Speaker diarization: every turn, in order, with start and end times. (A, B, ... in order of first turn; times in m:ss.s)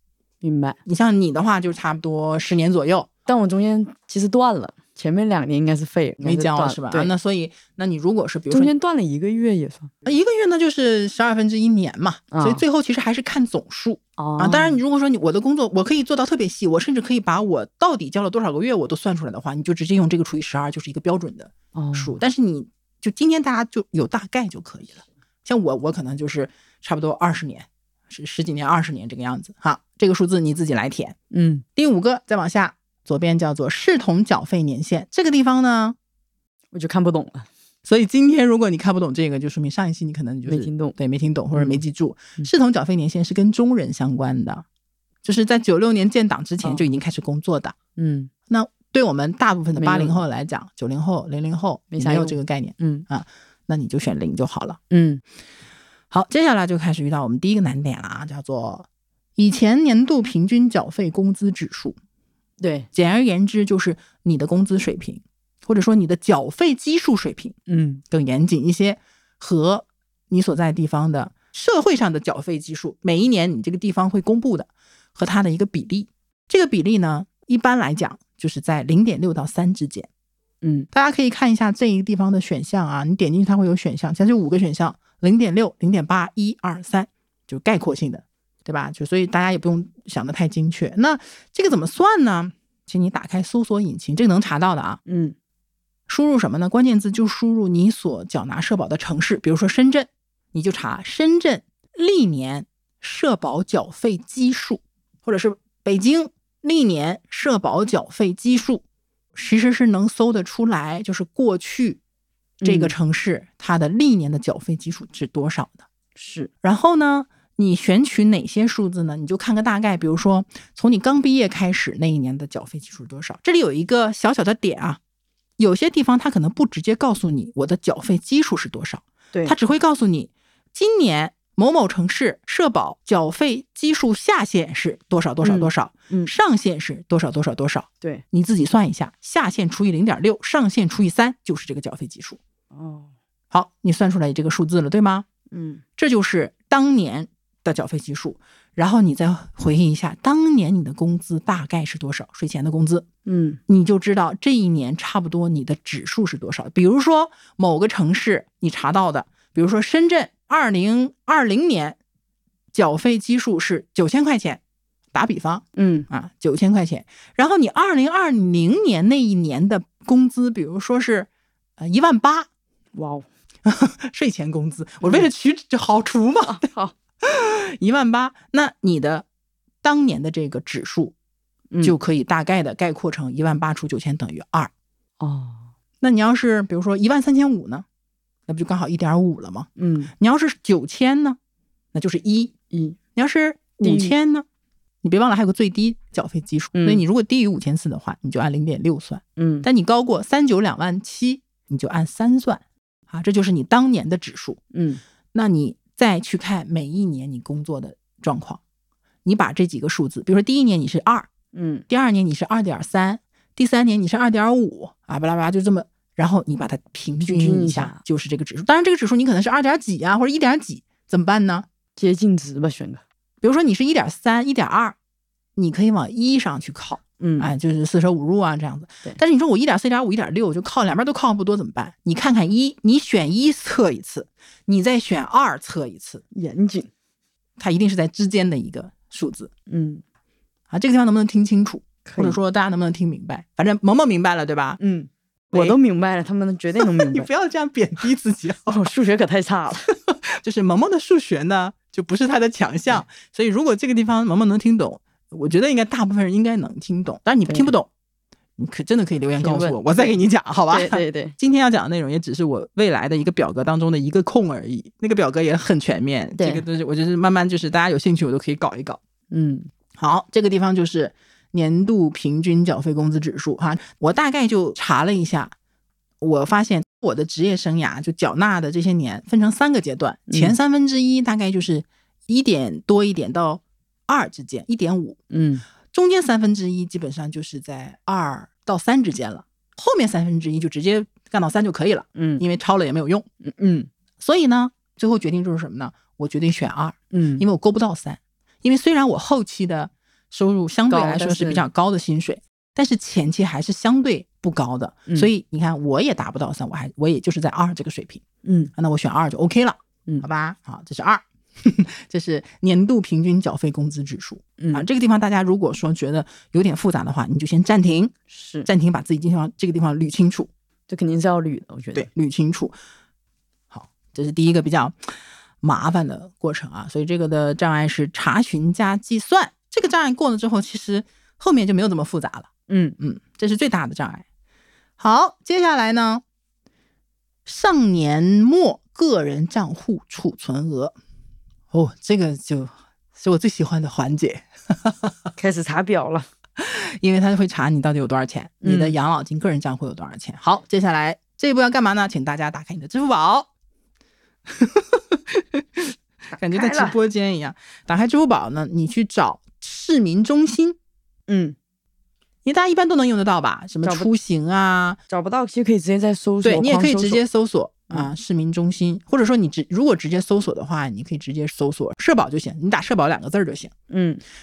0:00.4-0:00.8 A
0:00.8-0:03.1 B
0:03.3-0:07.1 A
0:06.2-0:08.7 B
0:08.5-0:09.9 A
0:10.0-0:31.2 B
0:12.3-0:12.6 A
0:14.2-0:14.8 A
0:21.7-0:22.2 A
0:31.3-0:31.6 A
0:31.8-0:36.0 B
0:36.7-0:37.5 A
0:37.8-0:44.6 B
0:40.4-0:41.0 A
0:41.5-0:41.8 A
0:45.2-0:47.8 B
0:48.0-0:48.3 A
0:48.5-0:54.8 B
0:49.8-0:50.2 A
0:51.9-0:53.0 A
0:54.9-0:55.2 A
0:56.1-1:02.0 B
1:02.6-1:02.9 A
1:02.9-1:07.6 B
1:07.7-1:08.0 A
1:08.1-1:20.1 B
1:20.6-1:20.9 A
1:20.9-1:35.0 B
1:35.0-1:35.3 A
1:36.1-1:48.8 B
1:49.3-1:52.0 B
1:52.6-1:52.9 A
1:52.6-1:55.8 B
1:56.2-1:56.5 A
1:56.6-2:05.0 B
2:05.6-2:22.4 B
2:15.4-2:16.3 A
2:22.7-2:23.1 A
2:23.5-2:25.3 B
2:25.5-2:25.8 A
2:26.0-2:33.1 B
2:33.2-2:33.6 A
2:33.7-2:42.0 B
2:42.7-2:44.6 B
2:45.1-2:52.5 B
2:45.8-2:46.1 A
2:52.9-2:53.2 A
2:53.6-2:56.7 B
2:56.5-2:56.9 A
2:57.2-2:59.2 B
2:59.8-3:01.1 B
3:01.7-3:02.0 A
3:01.8-3:04.7 B
3:05.2-3:05.7 A
3:06.0-3:07.8 B
3:08.5-3:11.4 B
3:09.8-3:10.1 A
3:11.9-3:12.5 B
3:12.7-3:13.0 A
3:13.1-3:14.4 B
3:13.8-3:14.1 A
3:15.0-3:24.6 B
3:16.8-3:17.0 A
3:19.4-3:19.6 A
3:24.7-3:25.0 A
3:25.3-3:28.6 B
3:29.2-3:31.3 B
3:31.5-3:31.8 A
3:31.9-3:41.7 B
3:37.2-3:38.0 A
3:42.0-3:43.0 A
3:43.4-3:44.9 B
3:45.6-3:56.2 B
3:47.2-3:47.5 A
3:56.3-3:56.9 A
3:57.6-3:59.5 B
3:59.7-4:00.0 A
4:00.7-4:04.8 B
4:02.0-4:02.4 A
4:04.8-4:07.3 A
4:05.5-4:05.8 B
4:06.8-4:08.8 B
4:08.6-4:09.9 A
4:10.1-4:17.9 B
4:18.6-4:29.0 B
4:19.4-4:20.1 A
4:20.7-4:21.4 A
4:26.4-4:26.6 A
4:29.3-4:29.7 A
4:30.0-4:35.5 B
4:36.2-4:45.2 B
4:40.3-4:40.6 A
4:45.3-4:45.6 A
4:45.9-4:53.2 B
4:52.2-4:52.4 A
4:53.4-4:53.9 A
4:54.2-5:08.2 B
4:57.1-4:57.4 A
5:00.9-5:01.6 A
5:08.4-5:08.7 A
5:08.7-5:18.1 B
5:14.6-5:14.8 A
5:18.3-5:18.7 A
5:18.6-5:20.5 B
5:20.9-5:22.1 A
5:21.9-5:22.7 B
5:23.7-5:25.0 B
5:25.6-5:34.2 B
5:32.7-5:33.0 A
5:35.0-5:36.2 B
5:37.4-5:40.9 B
5:41.7-5:45.1 B
5:45.4-5:46.3 A
5:46.6-5:53.5 B
5:48.6-5:48.9 A
5:54.5-6:00.8 B
5:56.3-5:57.0 A
6:01.3-6:01.6 A
6:02.4-6:05.0 B
6:03.8-6:04.1 A
6:05.1-6:07.2 A
6:06.4-6:13.7 B
6:13.9-6:14.2 A